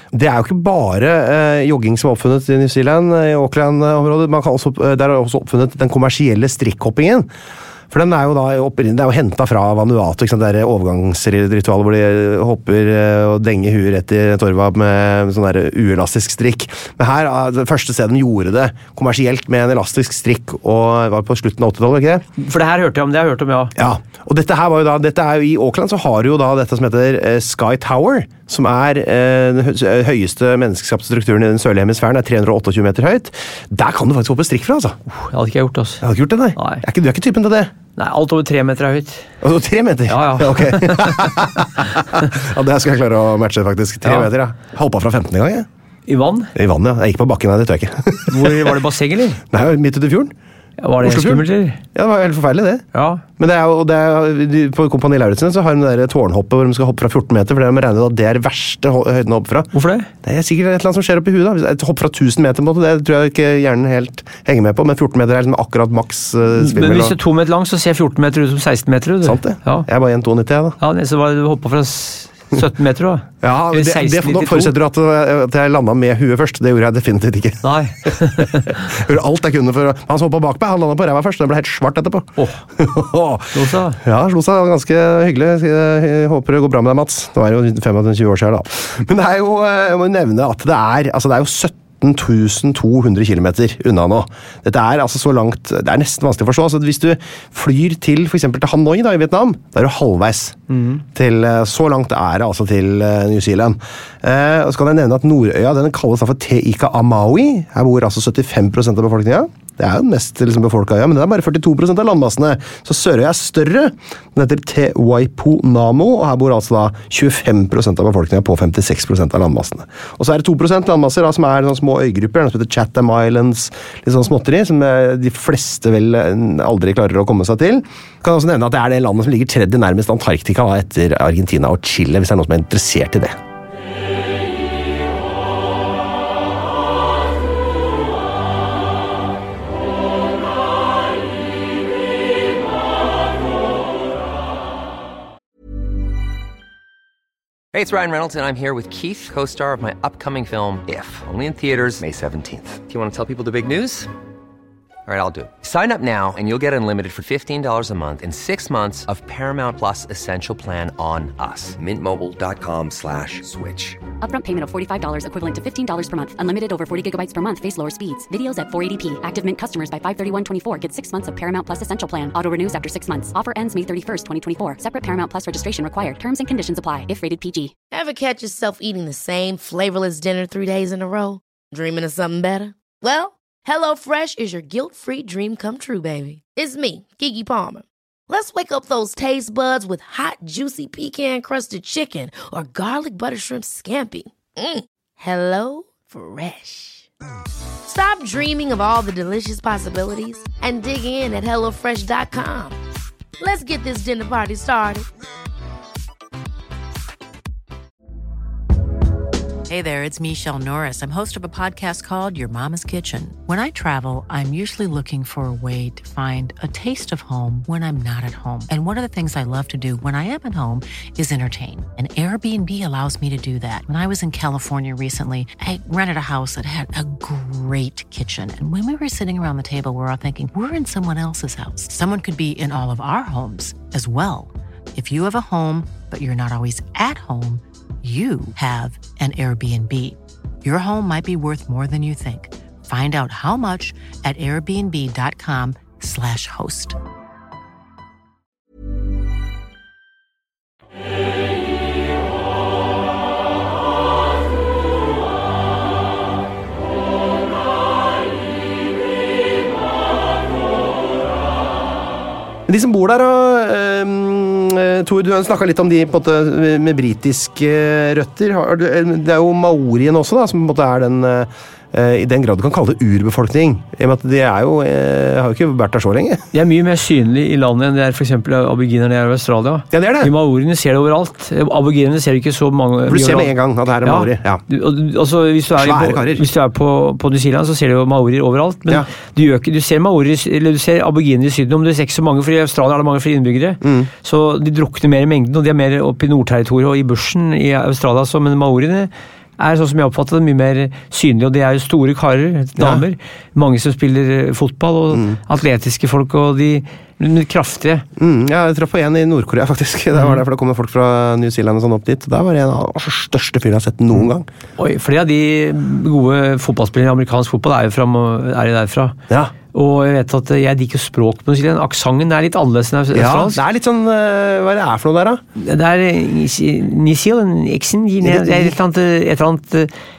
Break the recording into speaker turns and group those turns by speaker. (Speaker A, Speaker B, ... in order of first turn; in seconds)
Speaker A: 0.1-7.3, 7.9-22.2, 23.8-35.0, 36.0-37.7, 39.4-45.7, 46.5-48.8, 49.5-50.3, 51.0-52.8, 53.4-59.7, 60.2-67.2, 69.2-70.8, 73.4-100.6, 101.1-133.4, 262.7-276.4, 279.9-280.3, 283.1-284.6, 285.8-286.4, 293.8-294.1, 302.8-303.0, 305.1-305.4, 308.2-314.5, 323.1-325.4, 328.2-328.8
Speaker B: 22.4-23.7, 35.1-36.0, 36.6-36.8, 38.0-39.2, 40.1-41.4, 46.1-46.5, 48.3-49.4, 50.8-51.8, 52.9-53.2, 59.7-60.1, 66.5-69.9, 70.8-74.7, 77.6-78.8, 83.5-84.0, 100.7-101.0, 276.5-283.5, 284.0-308.1, 314.8-319.2, 319.7-323.6, 325.6-329.9
Speaker C: 147.7-154.1, 155.1-164.0
Speaker D: 164.2-177.7
Speaker E: 177.9-197.1, 197.8-202.8, 203.4-205.1
Speaker F: 209.7-247.0